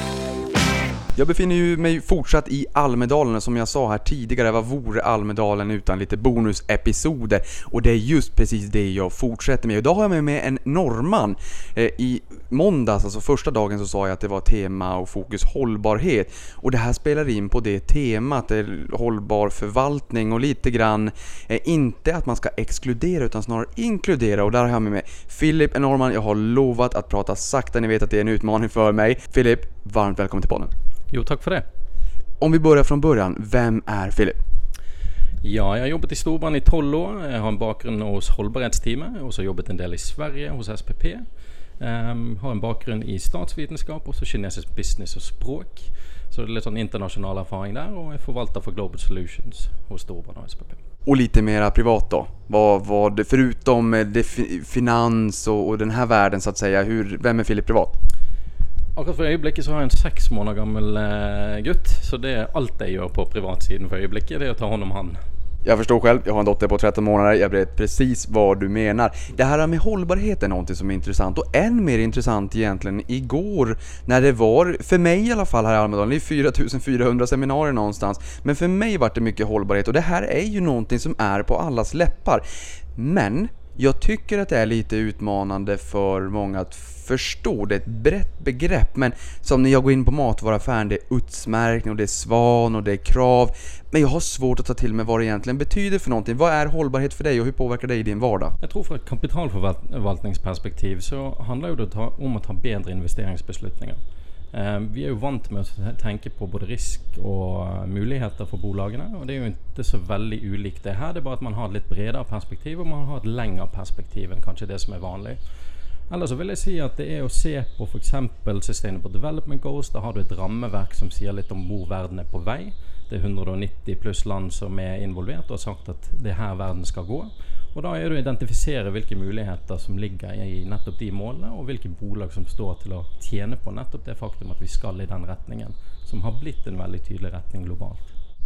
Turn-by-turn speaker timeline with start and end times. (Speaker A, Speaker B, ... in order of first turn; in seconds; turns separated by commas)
Speaker A: 1.1-30.7, Speaker B: 31.1-31.7, Speaker A: 32.4-34.4, Speaker B: 35.4-41.2, Speaker B: 41.8-50.8, Speaker A: 51.1-58.0, Speaker B: 59.0-65.2, Speaker A: 65.6-98.5, Speaker B: 98.6-104.0, Speaker B: 104.5-115.4, Speaker B: 116.1-138.1